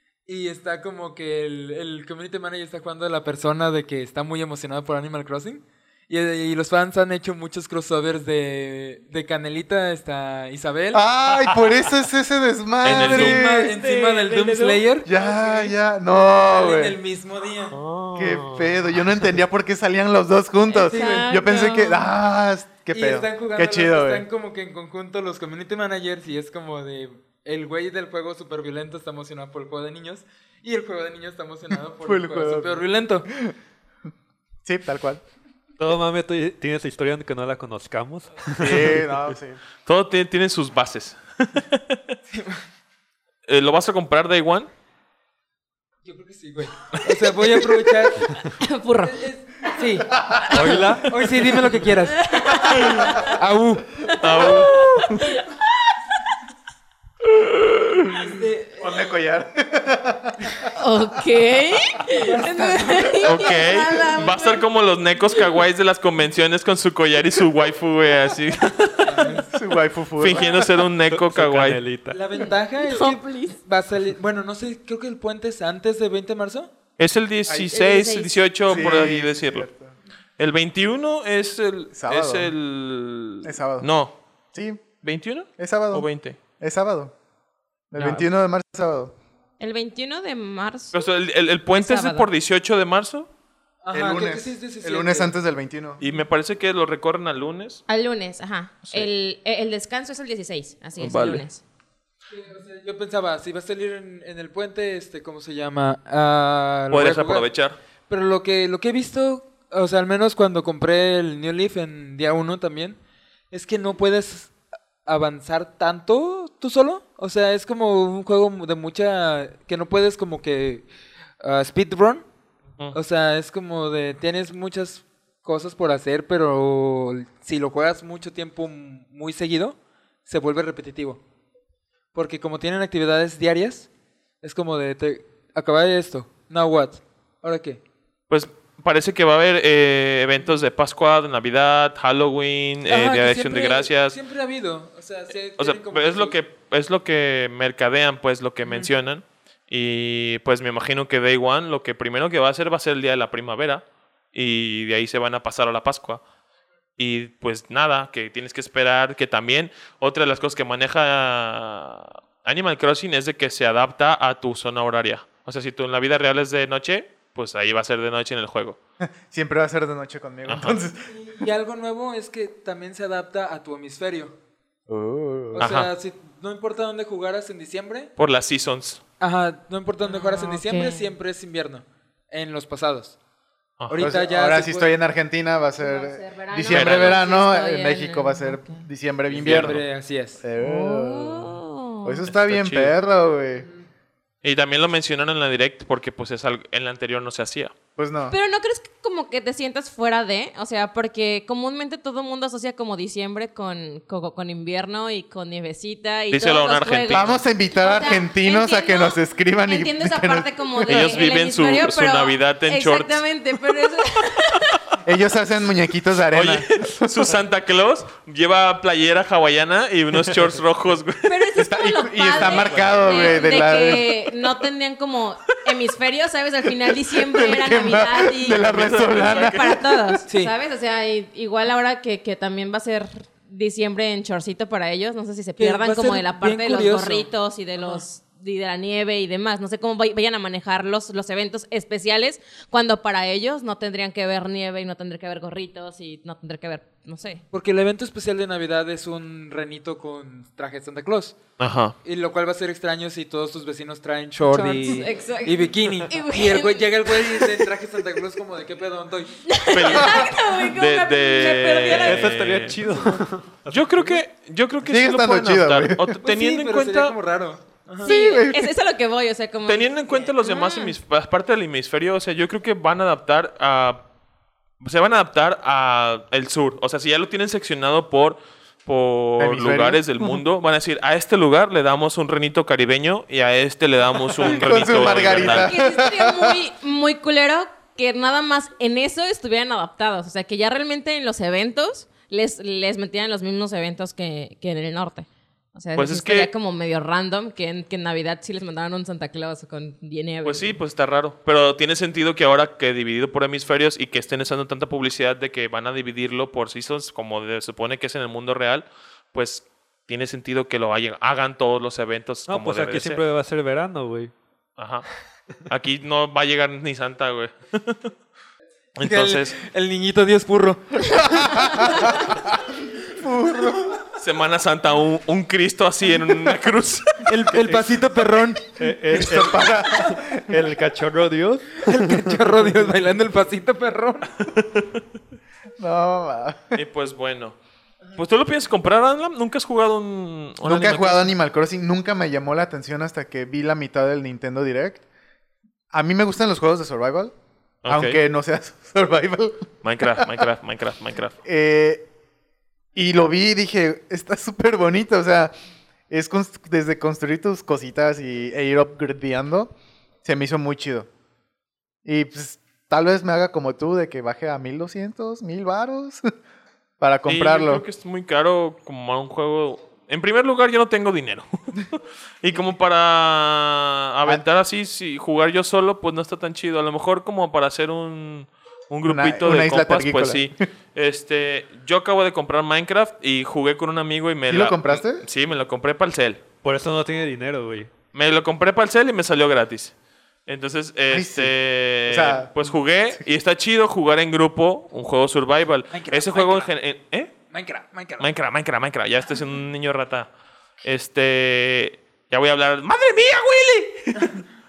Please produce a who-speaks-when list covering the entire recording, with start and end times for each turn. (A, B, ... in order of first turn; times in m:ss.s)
0:00.3-0:11.0 A
0:10.9-0:13.7 B
0:12.8-0:13.5 C
0:12.9-0:15.8 A
0:13.6-0:14.8 D
0:15.0-0:17.0 B
0:16.3-0:17.8 A
0:17.7-0:18.6 C
0:18.2-0:24.3 B
0:20.7-0:22.1 D
0:20.9-0:21.3 A
0:22.9-0:33.3 A
0:32.0-0:33.5 B
0:34.6-0:35.2 B
0:35.8-0:39.0 E
0:38.6-0:39.6 B
0:39.9-0:42.0 C
0:42.3-0:42.6 A
0:43.5-0:44.7 C
0:46.0-0:48.4 A
0:48.5-0:49.2 D
0:49.0-0:50.2 A
0:50.1-0:50.8 B
0:50.5-0:51.8 E
0:50.8-0:52.2 A
0:52.1-0:53.3 D
0:52.8-0:53.0 C
0:53.3-0:53.9 A
0:54.1-0:55.7 D
0:54.2-0:55.2 C
0:57.3-0:58.2 C
0:58.2-0:59.1 A
0:58.8-1:00.6 B
1:00.8-1:04.6 D
1:02.1-1:03.3 A
1:03.2-1:09.3 C
1:09.0-1:09.5 A
1:09.5-1:10.6 B
1:10.2-1:11.8 C
1:11.1-1:12.2 E
1:12.1-1:16.7 A
1:12.9-1:13.6 D
1:17.0-1:19.7 C
1:17.5-1:17.7 B
1:17.7-1:18.8 D
1:18.7-1:19.9 B
1:20.4-1:24.2 C
1:21.9-1:22.5 B
1:23.4-1:23.9 B
1:24.5-1:24.8 B
1:25.0-1:26.4 C
1:25.6-1:26.1 B
1:26.6-1:27.1 B
1:27.9-1:29.1 B
1:28.0-1:28.2 E
1:29.6-1:31.0 D
1:30.9-1:33.3 C
1:31.7-1:32.3 D
1:33.8-1:35.3 A
1:33.9-1:36.0 B
1:36.0-1:37.8 C
1:37.9-1:41.6 D
1:41.0-1:41.4 C
1:42.3-1:47.5 A
1:46.9-1:47.8 C
1:48.1-1:53.0 A
1:53.5-1:54.5 A
1:55.0-2:00.9 A
2:01.4-2:02.2 A
2:02.9-2:11.2 A
2:12.1-2:13.9 A
2:14.4-2:17.8 A
2:18.3-2:24.2 C
2:22.9-2:26.4 A
2:25.6-2:36.2 C
2:37.0-2:48.8 C
2:49.0-2:51.1 B
2:50.5-2:50.8 C
2:51.1-2:54.4 A
2:54.9-2:55.7 B
2:55.5-2:58.1 A
2:55.6-2:55.9 C
2:58.2-2:59.0 C
2:59.2-3:03.2 A
3:00.1-3:01.1 D
3:03.8-3:04.0 C
3:03.9-3:04.9 A
3:04.0-3:09.8 B
3:05.8-3:08.8 D
3:06.7-3:07.2 C
3:09.3-3:10.4 A
3:09.4-3:09.8 C
3:10.4-3:13.7 B
3:10.6-3:12.2 D
3:12.3-3:12.9 C
3:14.4-3:17.7 C
3:18.0-3:18.4 B
3:18.3-3:34.8 D
3:26.3-3:27.4 C
3:27.1-3:31.2 B
3:30.9-3:33.2 C
3:35.0-3:37.1 B
3:36.3-3:41.5 C
3:41.2-4:07.4 D
3:41.6-3:44.3 B
3:42.4-3:43.4 C
3:47.1-3:50.2 B
3:48.5-3:49.9 C
3:50.3-3:50.5 A
3:55.6-3:57.3 A
4:07.5-4:11.4 A
4:11.6-4:12.0 C
4:12.0-4:19.4 A
4:14.4-4:17.6 D
4:19.5-4:22.4 D
4:19.7-4:22.8 C
4:21.9-4:24.2 E
4:23.7-4:27.2 C
4:24.8-4:26.2 B
4:26.2-4:28.1 A
4:28.0-4:28.7 B
4:28.0-4:31.0 D
4:29.7-4:34.0 C
4:34.8-4:45.7 C
4:39.4-4:40.4 B
4:44.3-4:46.6 B
4:45.3-5:00.8 D
4:56.0-4:56.5 C
5:00.4-5:13.2 C
5:12.5-5:14.3 E
5:14.8-5:15.1 C
5:15.7-5:18.1 C
5:19.0-5:19.6 C
5:19.0-5:21.7 A
5:21.1-5:24.0 B
5:24.2-5:27.3 C
5:27.2-5:28.6 A
5:27.6-5:28.0 E
5:28.8-5:32.8 E
5:29.1-5:30.6 B
5:31.8-5:34.3 A
5:34.5-5:34.9 C
5:35.8-5:36.8 B
5:36.7-5:37.6 C
5:38.2-5:41.3 C
5:40.6-5:45.0 B
5:45.9-5:47.3 B
5:47.8-5:48.2 C
5:47.9-5:50.4 B
5:49.8-5:51.4 C
5:51.4-5:52.1 B
5:53.0-5:55.5 B
5:56.1-5:59.7 B
6:00.2-6:01.1 B
6:02.0-6:06.3 B
6:07.0-6:07.8 B
6:07.3-6:11.9 C
6:12.4-6:26.4 C
6:19.1-6:20.5 B
6:24.5-6:25.2 B
6:26.6-6:27.9 E
6:28.1-6:29.9 C
6:30.5-6:37.3 C
6:31.1-6:32.5 B
6:35.9-6:36.7 A
6:37.5-6:38.3 A
6:38.2-6:40.3 C
6:40.8-6:44.4 C